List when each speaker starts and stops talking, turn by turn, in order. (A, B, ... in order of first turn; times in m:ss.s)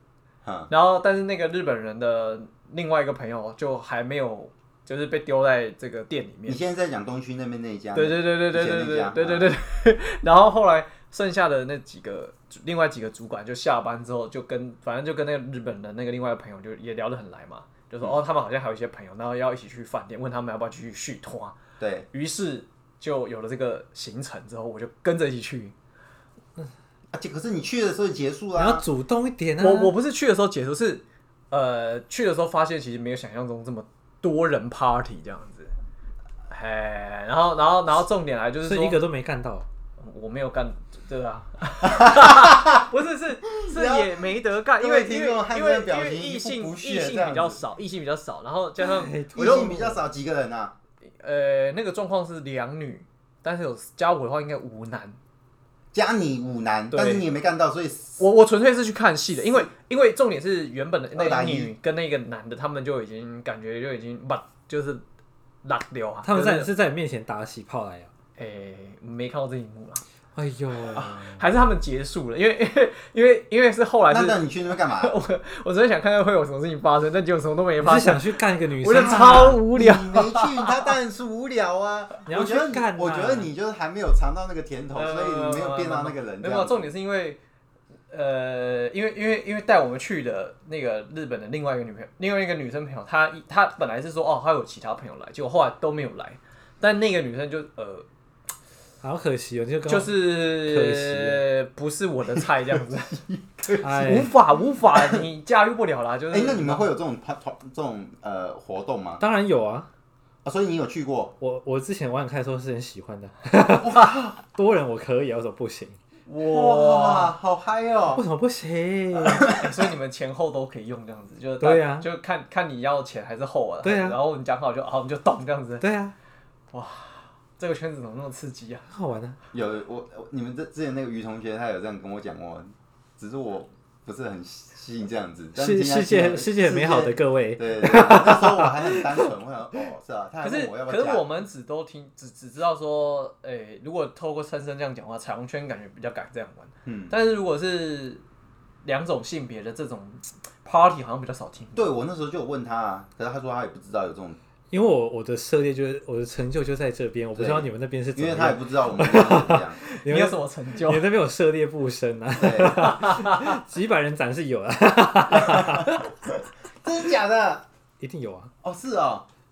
0:00.4-0:00.7 A
0:00.7-0:06.6 B
0:06.5-0:09.6 A
0:07.9-0:21.6 B
0:21.8-0:22.1 A
0:22.1-0:25.7 B
0:27.1-0:28.9 A
0:28.5-0:29.9 C
0:29.6-0:35.7 B
0:36.5-0:39.0 B
0:38.6-0:39.6 C
0:40.0-0:49.7 B
0:41.9-0:42.8 A
0:43.5-0:47.6 A
0:48.8-0:50.0 C
0:49.3-0:50.7 A
0:51.2-0:55.2 B
0:55.9-0:58.2 A
0:56.9-0:57.2 B
0:58.2-1:05.0 B
1:01.1-1:01.7 A
1:05.6-1:06.7 B
1:06.2-1:08.1 C
1:08.4-1:10.0 B
1:10.3-1:11.4 C
1:11.2-1:20.9 B
1:14.1-1:15.2 A
1:17.8-1:19.7 C
1:18.9-1:26.9 A
1:22.2-1:23.5 C
1:24.9-1:27.4 B
1:28.1-1:38.0 B
1:39.0-1:41.4 C
1:39.9-1:43.2 B
1:42.9-1:44.3 A
1:43.8-1:44.3 C
1:43.9-1:46.9 B
1:44.9-1:45.2 A
1:46.3-1:49.2 A
1:49.2-1:49.9 C
1:50.4-1:51.3 A
1:51.4-1:56.0 C
1:53.6-1:54.4 A
1:56.3-1:57.4 B
1:56.4-1:58.2 A
1:58.1-1:59.5 C
1:59.2-1:59.7 A
1:59.4-2:05.8 B
2:01.6-2:02.1 C
2:03.8-2:04.2 C
2:05.8-2:06.1 C
2:06.7-2:08.9 B
2:08.9-2:09.4 C
2:09.5-2:21.2 A
2:15.5-2:19.3 C
2:20.4-2:28.2 B
2:26.8-2:27.1 A
2:28.8-2:31.9 B
2:31.8-2:34.4 A
2:34.7-2:46.1 C
2:37.3-2:39.8 A
2:39.9-2:41.1 B
2:42.4-2:43.0 A
2:42.8-2:43.6 B
2:45.5-2:46.0 A
2:46.8-2:47.6 A
2:48.0-2:48.5 C
2:48.6-2:49.2 A